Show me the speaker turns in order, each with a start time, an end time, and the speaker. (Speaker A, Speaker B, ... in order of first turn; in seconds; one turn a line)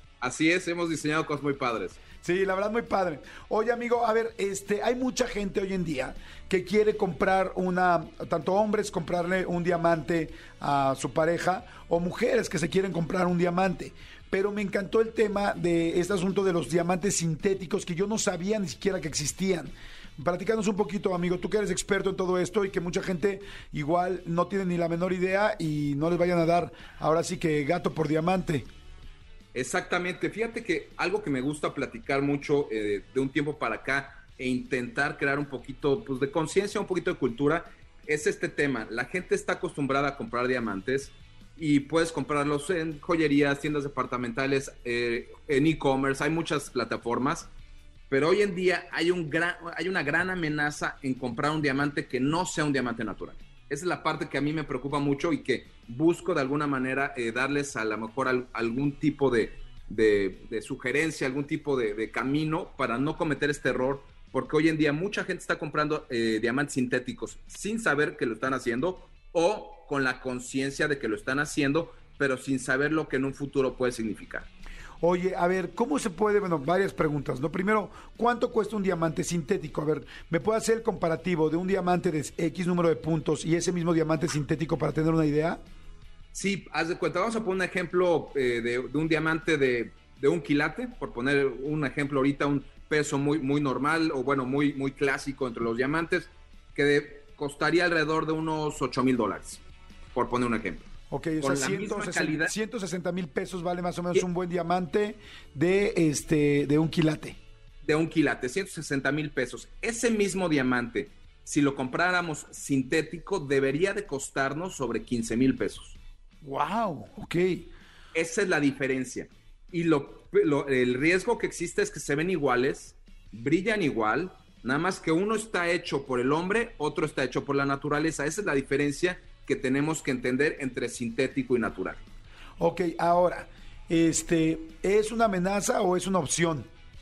Speaker A: 0.2-2.0
Speaker B: 2.2-28.7
Speaker A: 29.5-47.5
Speaker A: 48.1-74.5
Speaker B: 75.0-85.6
Speaker A: 86.3-99.6
Speaker A: 100.1-100.9
Speaker B: 101.1-107.4
Speaker A: 101.4-102.5
Speaker A: 107.8-116.0
Speaker B: 116.4-117.7
Speaker A: 118.1-132.0
Speaker B: 132.6-136.7